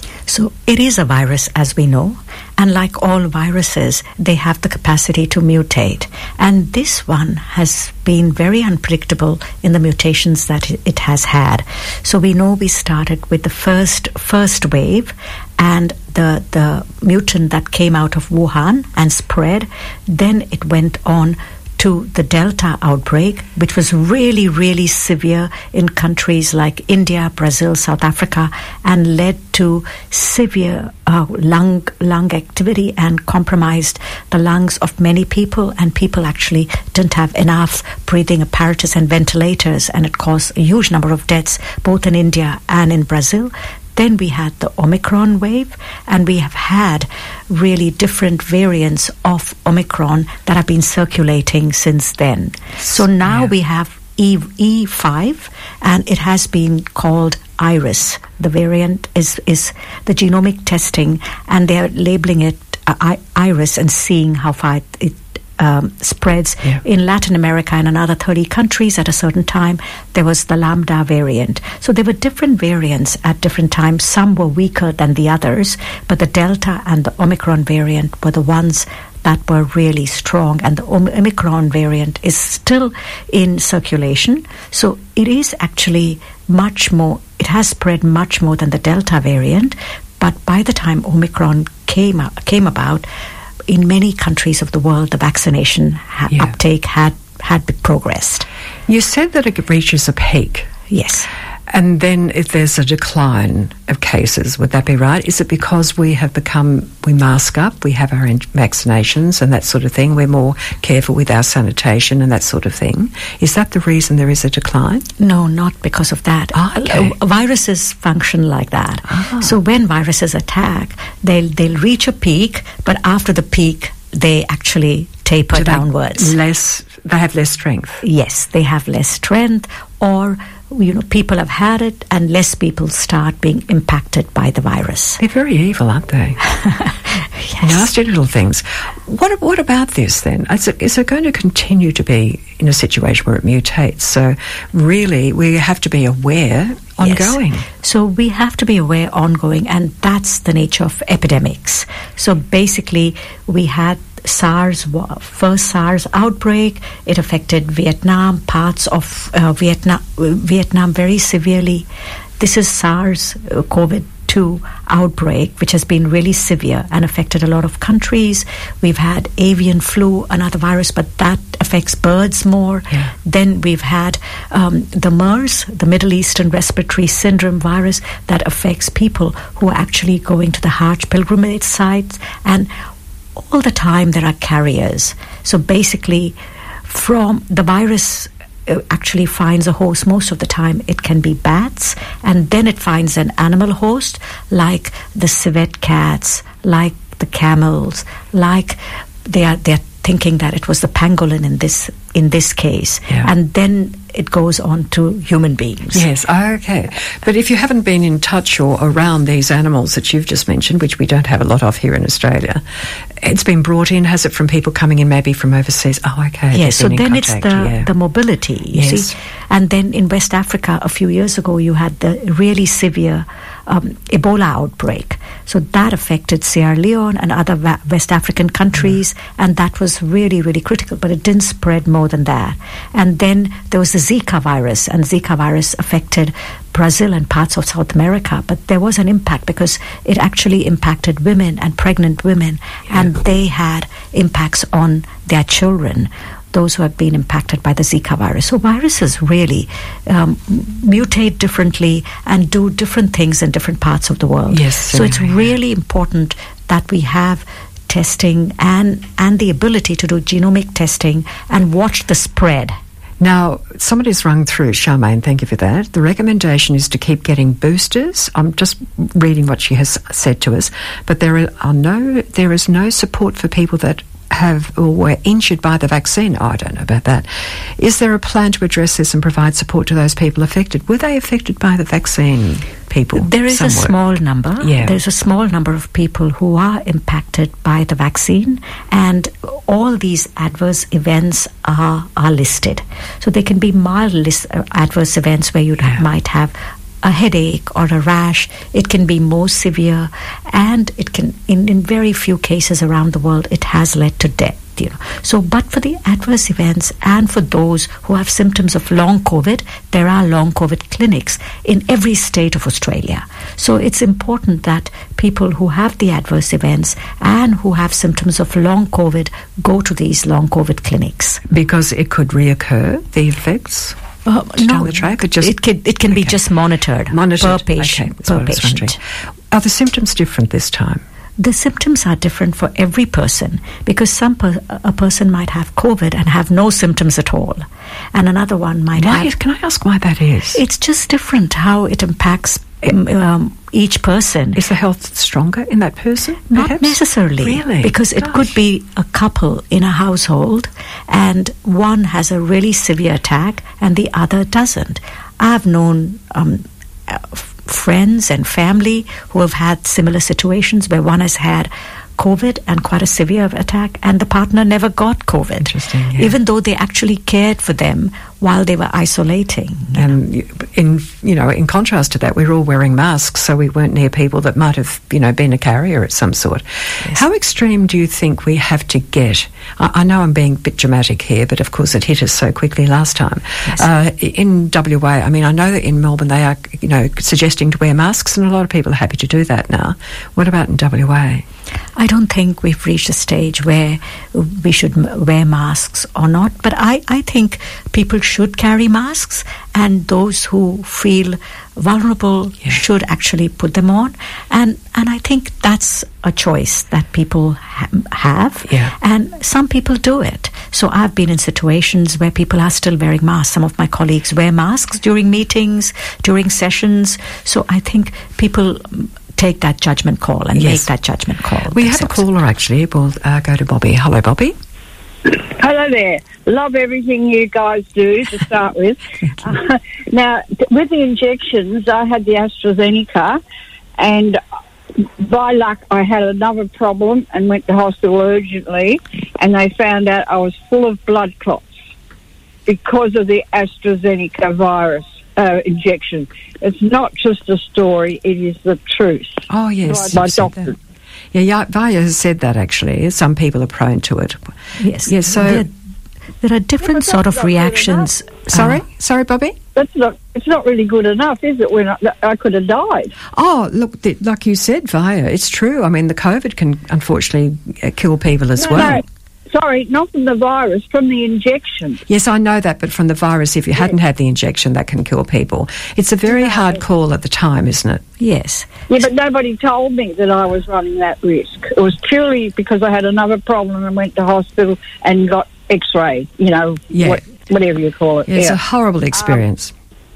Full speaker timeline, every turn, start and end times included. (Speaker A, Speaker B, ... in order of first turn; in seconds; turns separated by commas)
Speaker A: 0.3-93.1, Speaker A: 93.7-98.5, Speaker B: 98.9-100.7, Speaker A: 100.9-101.3, Speaker B: 101.7-115.0, Speaker A: 115.2-126.3, Speaker B: 116.5-117.2, Speaker B: 119.1-119.5, Speaker B: 125.5-128.0, Speaker A: 128.0-135.2, Speaker B: 135.2-136.4, Speaker A: 136.6-137.8, Speaker B: 137.6-147.7, Speaker A: 147.0-161.9, Speaker A: 162.4-182.7, Speaker A: 183.4-206.1, Speaker B: 205.9-212.6, Speaker B: 213.2-217.9, Speaker A: 216.5-262.8, Speaker B: 218.7-219.1, Speaker B: 254.5-255.5, Speaker B: 263.2-277.3, Speaker B: 277.8-283.9, Speaker A: 283.2-321.4, Speaker B: 284.6-285.0, Speaker B: 321.5-324.0, Speaker A: 324.3-329.0, Speaker B: 324.6-325.6, Speaker B: 327.1-329.0, Speaker B: 329.5-331.0, Speaker A: 331.4-339.3, Speaker B: 339.0-340.6, Speaker A: 340.5-344.6, Speaker B: 344.6-347.9, Speaker A: 346.5-370.1, Speaker B: 365.6-366.3, Speaker B: 370.0-391.4, Speaker A: 392.0-422.2, Speaker B: 420.6-420.9, Speaker B: 421.7-424.6, Speaker C: 425.2-433.4, Speaker C: 434.0-434.4, Speaker C: 435.0-441.7, Speaker C: 442.7-450.8, Speaker B: 449.5-450.6, Speaker B: 451.3-454.5, Speaker A: 454.8-455.7, Speaker B: 455.1-455.7, Speaker A: 456.4-458.8, Speaker C: 456.8-458.1, Speaker B: 458.5-459.6, Speaker C: 459.8-463.1, Speaker B: 463.3-469.0, Speaker C: 468.6-472.0, Speaker B: 472.1-478.0, Speaker C: 476.3-476.7, Speaker A: 478.2-478.7, Speaker C: 478.9-488.6, Speaker B: 486.9-487.2, Speaker B: 488.3-489.7